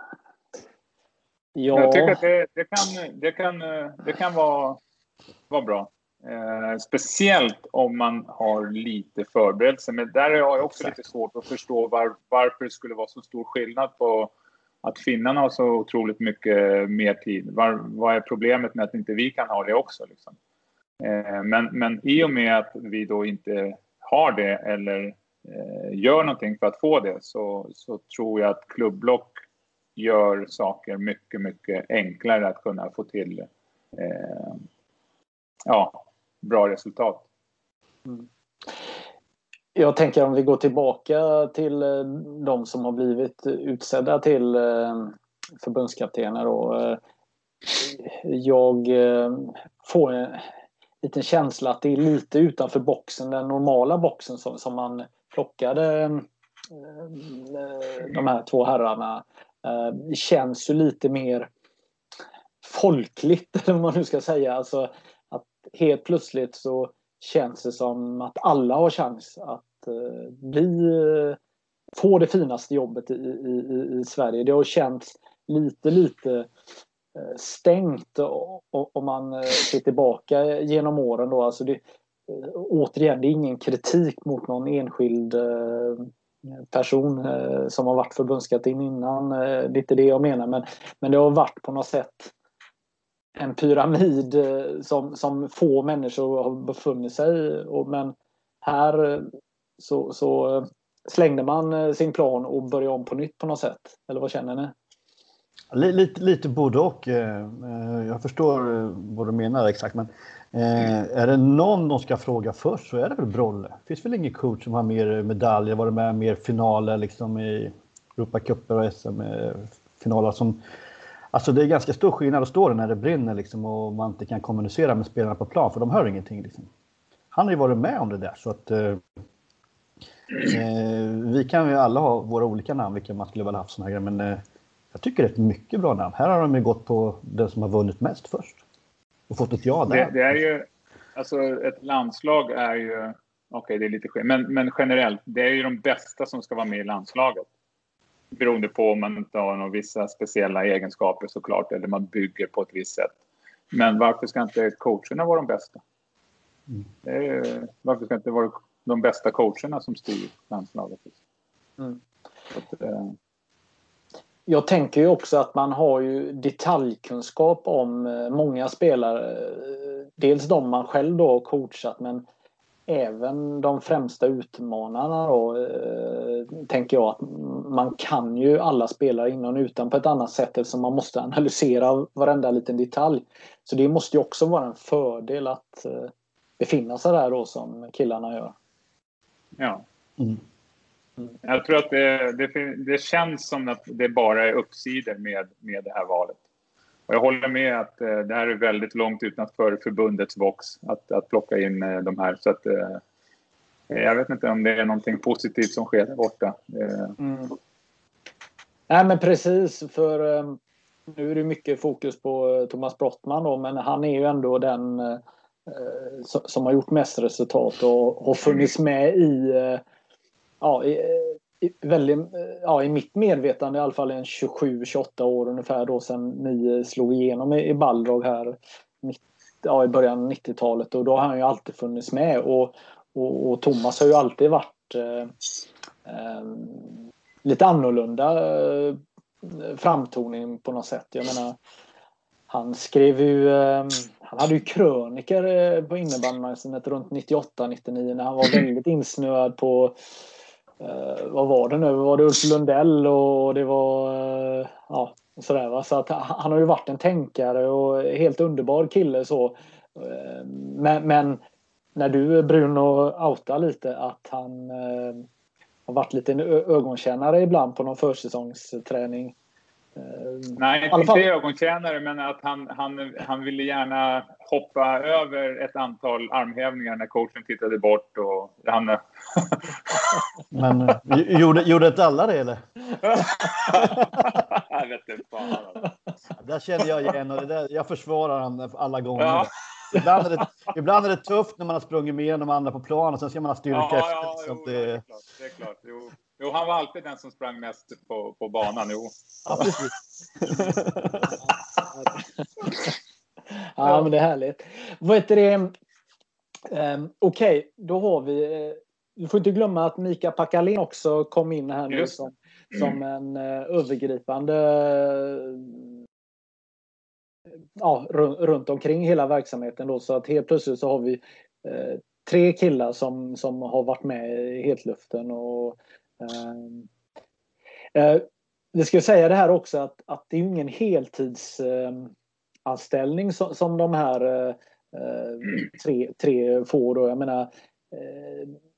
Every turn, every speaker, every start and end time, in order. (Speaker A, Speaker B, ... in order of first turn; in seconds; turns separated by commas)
Speaker A: 1.6-2.2, Speaker B: 1.7-4.8, Speaker B: 5.5-14.3, Speaker B: 14.8-20.4, Speaker B: 21.0-29.3, Speaker B: 30.0-34.6, Speaker B: 35.7-37.2, Speaker A: 39.8-47.0, Speaker A: 47.6-50.5, Speaker A: 51.0-61.5, Speaker A: 62.6-71.4, Speaker A: 72.0-76.5, Speaker A: 77.2-86.1, Speaker A: 86.6-92.3, Speaker A: 93.4-104.7, Speaker C: 105.7-120.6, Speaker C: 121.3-126.7, Speaker C: 127.3-129.0, Speaker C: 130.4-134.4, Speaker C: 134.9-138.6, Speaker C: 139.3-140.2, Speaker B: 139.9-147.5, Speaker B: 148.3-153.1, Speaker B: 153.7-155.8, Speaker B: 157.1-161.2, Speaker B: 162.5-163.2, Speaker A: 164.5-172.2, Speaker A: 172.9-188.6, Speaker B: 189.6-189.8, Speaker B: 191.4-196.4, Speaker B: 197.1-203.0, Speaker B: 203.9-207.2, Speaker A: 207.2-207.6, Speaker A: 208.9-219.8, Speaker A: 220.6-235.3, Speaker A: 236.1-241.6, Speaker A: 242.5-250.0, Speaker A: 250.8-261.4, Speaker A: 261.9-265.2, Speaker A: 265.9-269.4, Speaker A: 270.0-271.2, Speaker B: 270.6-280.2, Speaker C: 280.5-282.6, Speaker B: 283.0-285.9, Speaker C: 283.8-284.1, Speaker C: 286.4-295.0, Speaker B: 289.2-289.5, Speaker B: 293.7-299.7, Speaker C: 299.5-301.4, Speaker A: 303.8-305.7, Speaker A: 306.7-315.8, Speaker A: 317.8-326.9, Speaker A: 327.9-332.1, Speaker A: 332.7-338.6